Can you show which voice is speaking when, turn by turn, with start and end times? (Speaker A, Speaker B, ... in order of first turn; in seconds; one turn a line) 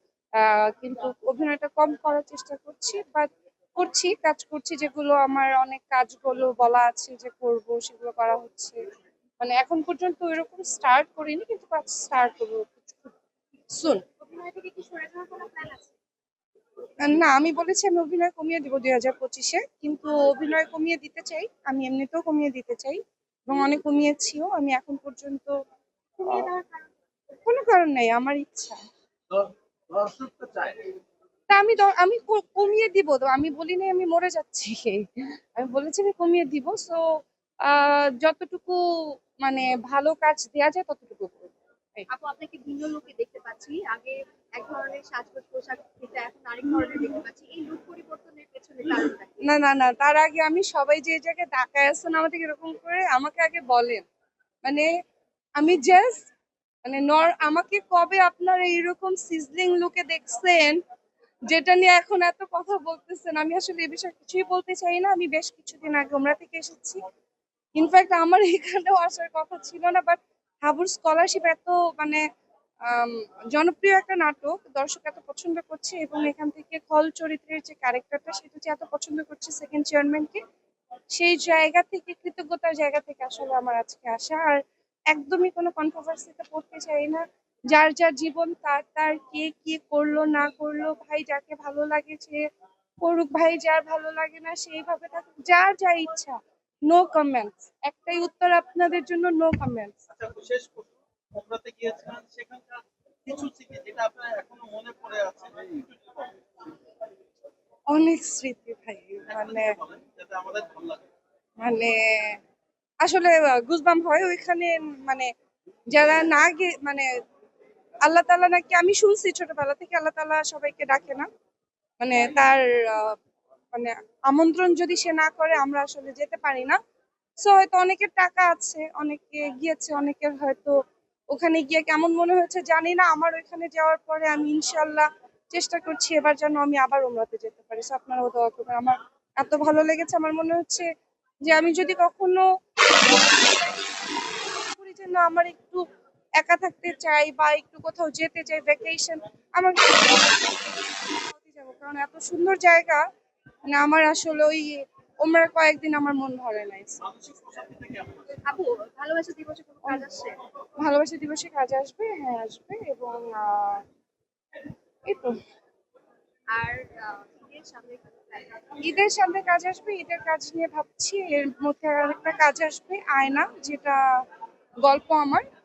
Speaker A: 0.4-8.8
Speaker A: 9.4-13.2
Speaker A: 13.8-14.0
Speaker B: 14.2-15.9
Speaker A: 17.0-25.5
Speaker A: 26.2-26.6
Speaker A: 27.3-28.8
Speaker C: 30.2-30.7
Speaker A: 31.5-37.0
Speaker A: 37.6-38.8
Speaker A: 39.4-42.1
Speaker B: 42.1-49.4
Speaker A: 49.5-54.0
Speaker A: 54.6-54.9
Speaker A: 55.6-56.3
Speaker A: 56.8-60.8
Speaker A: 61.5-67.0
Speaker A: 67.8-72.2
Speaker A: 72.8-80.4
Speaker A: 81.2-84.6
Speaker A: 85.1-92.4
Speaker A: 93.0-100.0
Speaker C: 100.1-106.4
Speaker A: 107.9-109.8
Speaker C: 109.3-111.1
Speaker A: 111.6-112.4
Speaker A: 113.0-115.3
Speaker A: 115.9-117.1
Speaker A: 118.0-121.3
Speaker A: 122.0-123.2
Speaker A: 123.7-126.8
Speaker A: 127.4-130.8
Speaker A: 131.3-140.9
Speaker A: 141.4-142.4
Speaker A: 143.1-143.7
Speaker A: 144.7-145.8
Speaker A: 146.4-153.1
Speaker A: 153.7-157.0
Speaker C: 157.0-158.3
Speaker B: 158.5-160.3
Speaker A: 160.8-163.8
Speaker A: 165.1-165.4
Speaker B: 166.5-168.8
Speaker A: 168.8-174.0
Speaker A: 174.8-175.5